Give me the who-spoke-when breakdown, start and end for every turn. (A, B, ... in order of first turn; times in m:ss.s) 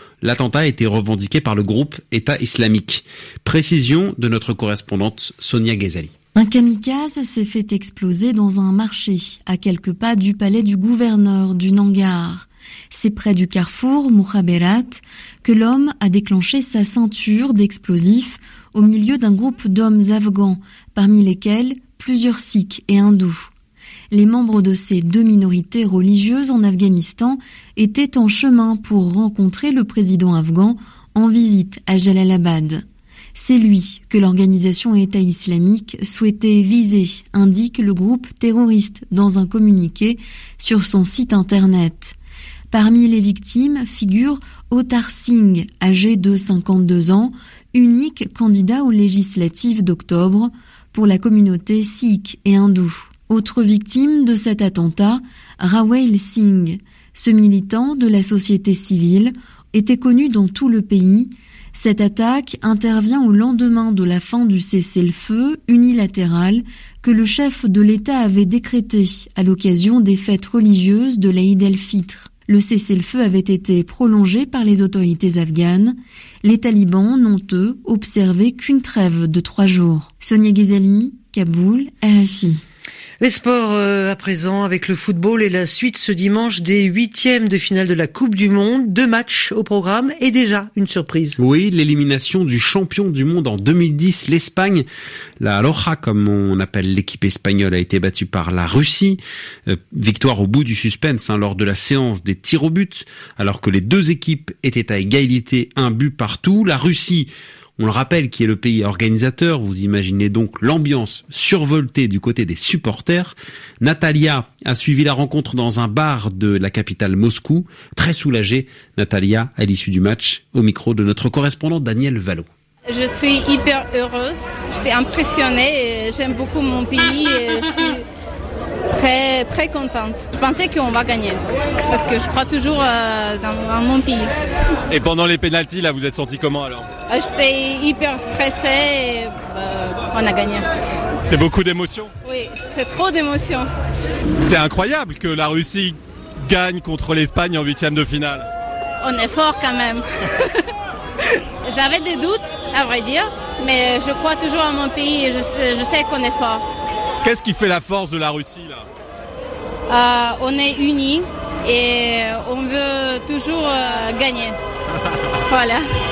0:00.2-0:06.1 A
0:06.4-0:23.5 B
0:24.1-0:32.8 B
0:33.3-0:42.2 B
0:42.7-1:22.6 B
1:23.2-1:31.4 C
1:31.4-1:34.8 A
1:35.4-2:02.4 A
2:02.9-2:08.0 D
2:08.9-2:14.3 D
2:14.9-2:16.9 E
2:17.1-2:20.6 D
2:21.2-2:22.1 E
2:22.2-2:23.7 D
2:24.4-2:28.5 E
2:29.0-2:30.7 D
2:31.6-2:36.6 D
2:37.2-2:38.9 E
2:39.9-2:44.5 D
2:45.5-2:45.8 D